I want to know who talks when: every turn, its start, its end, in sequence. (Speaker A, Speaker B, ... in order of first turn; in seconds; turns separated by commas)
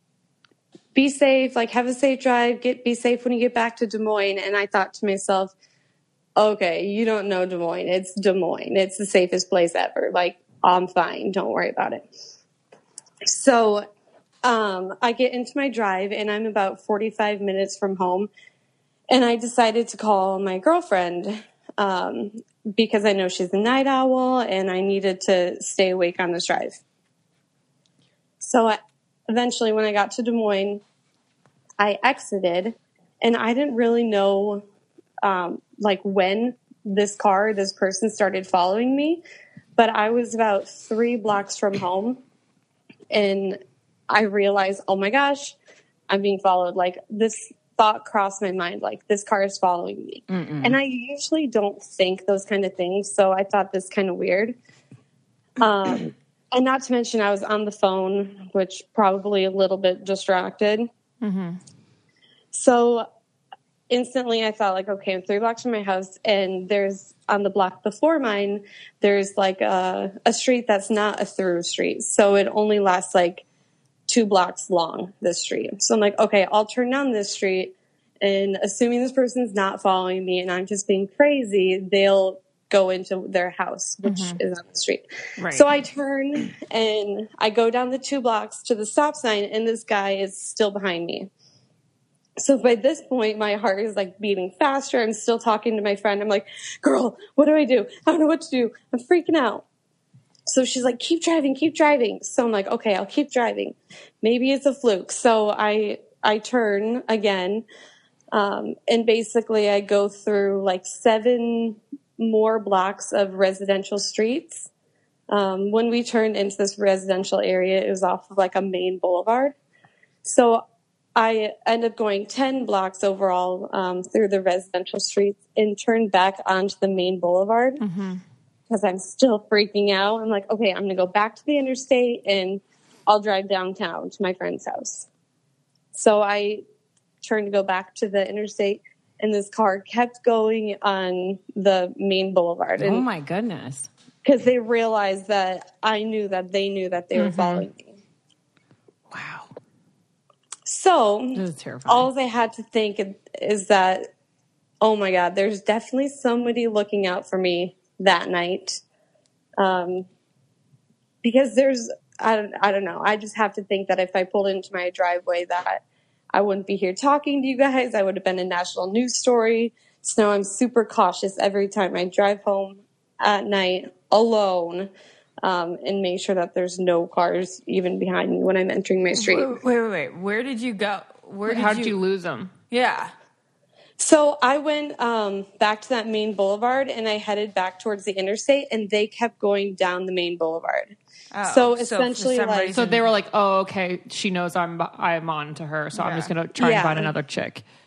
Speaker A: 0.9-5.5, Speaker A: 6.3-12.1, Speaker A: 13.2-13.9, Speaker A: 14.4-18.3, Speaker A: 19.1-26.8, Speaker A: 28.4-28.8, Speaker A: 29.3-30.8, Speaker A: 31.8-34.6, Speaker A: 35.2-39.2, Speaker A: 39.8-42.2, Speaker A: 43.1-45.5, Speaker A: 46.1-54.5, Speaker B: 50.3-50.8, Speaker A: 55.6-60.9, Speaker C: 61.2-61.6, Speaker A: 62.5-63.1, Speaker A: 63.9-73.4, Speaker A: 74.1-91.3, Speaker C: 84.0-84.4, Speaker A: 92.4-99.6, Speaker A: 100.5-107.6, Speaker A: 108.3-114.7, Speaker A: 115.3-119.5, Speaker A: 120.2-120.6, Speaker A: 121.1-127.8, Speaker C: 127.8-128.2, Speaker A: 128.7-135.1, Speaker A: 135.9-136.6, Speaker A: 137.2-143.1, Speaker B: 142.8-143.9, Speaker A: 144.2-147.9, Speaker C: 147.1-147.7, Speaker B: 149.1-149.5, Speaker A: 150.7-154.1, Speaker B: 151.3-152.1, Speaker A: 154.8-158.8, Speaker A: 159.6-160.1, Speaker A: 161.2-165.8, Speaker A: 166.3-174.9, Speaker A: 175.4-179.6, Speaker D: 179.1-182.0, Speaker C: 181.4-182.5, Speaker D: 182.7-183.1, Speaker A: 184.0-192.8, Speaker D: 191.3-193.1, Speaker C: 192.7-197.6, Speaker D: 195.9-196.3, Speaker A: 196.6-197.1